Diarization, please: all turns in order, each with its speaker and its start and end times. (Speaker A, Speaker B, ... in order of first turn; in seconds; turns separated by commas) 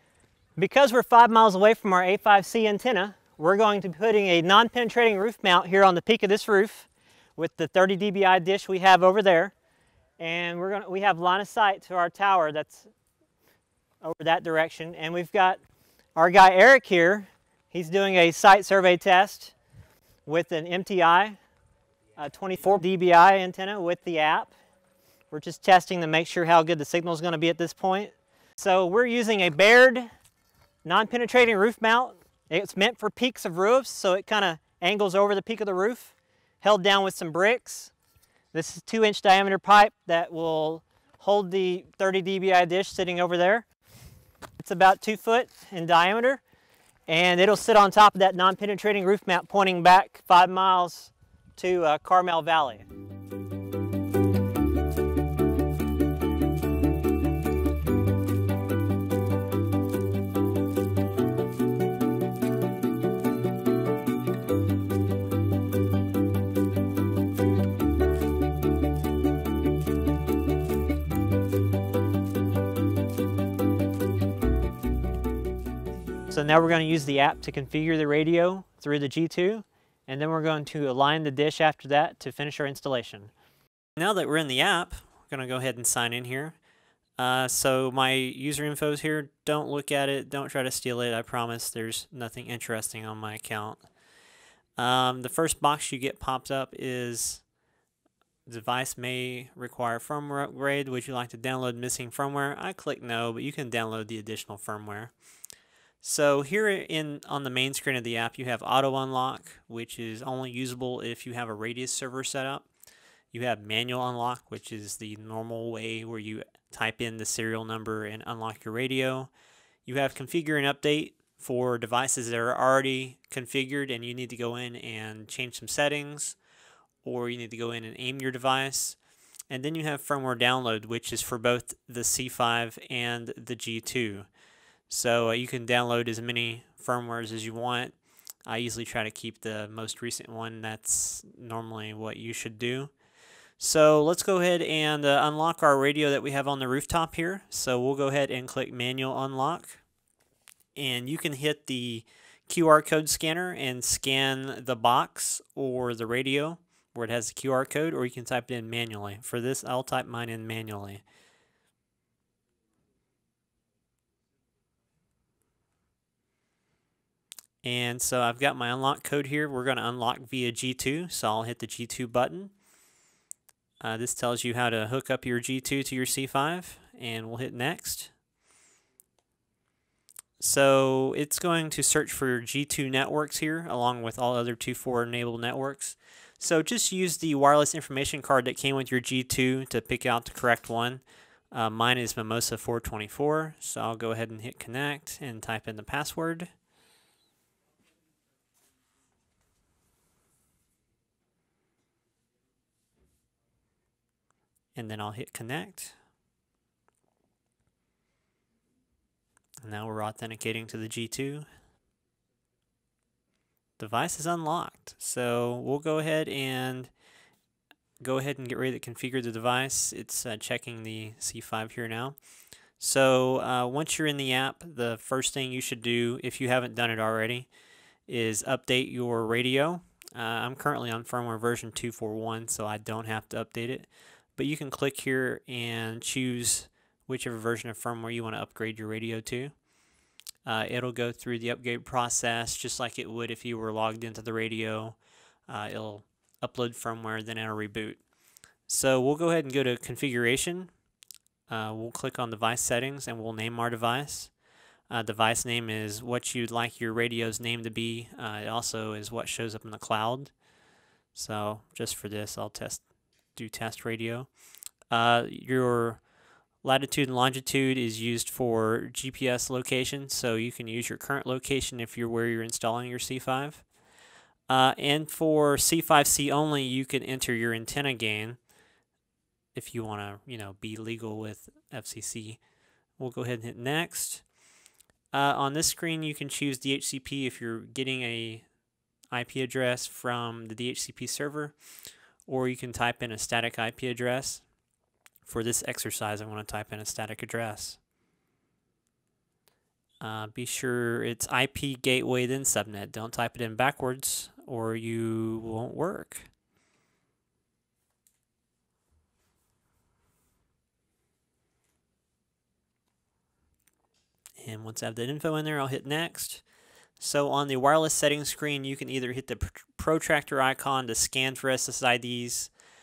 Speaker A: 0.6-9.5, Speaker A: 10.2-12.9, Speaker A: 14.0-15.6, Speaker A: 16.2-19.5, Speaker A: 20.3-21.4, Speaker A: 22.2-24.5, Speaker A: 25.3-30.1, Speaker A: 30.9-37.9, Speaker A: 38.5-43.7, Speaker A: 44.6-46.4, Speaker A: 47.1-52.9, Speaker A: 76.3-83.3, Speaker A: 84.0-86.6, Speaker A: 87.2-93.8, Speaker A: 94.8-97.4, Speaker A: 98.5-105.1, Speaker A: 106.0-112.7, Speaker A: 113.3-119.3, Speaker A: 119.9-126.4, Speaker A: 127.0-129.0, Speaker A: 129.5-134.3, Speaker A: 134.9-142.9, Speaker A: 143.6-149.8, Speaker A: 150.8-161.0, Speaker A: 167.6-172.5, Speaker A: 173.8-178.1, Speaker A: 180.4-196.5, Speaker A: 204.8-205.9, Speaker A: 209.6-211.5, Speaker A: 213.8-216.9, Speaker A: 218.0-222.2, Speaker A: 222.8-227.5, Speaker A: 228.1-239.5, Speaker A: 240.5-245.0, Speaker A: 245.5-248.0, Speaker A: 248.7-250.7, Speaker A: 251.5-254.3, Speaker A: 254.9-260.3, Speaker A: 261.1-264.3, Speaker A: 264.9-266.0, Speaker A: 266.6-273.6, Speaker A: 274.5-278.4, Speaker A: 279.6-282.4, Speaker A: 283.0-284.2, Speaker A: 285.1-288.5, Speaker A: 289.1-291.6, Speaker A: 292.3-294.4, Speaker A: 295.2-297.8, Speaker A: 300.0-306.3, Speaker A: 314.4-316.4, Speaker A: 317.0-322.5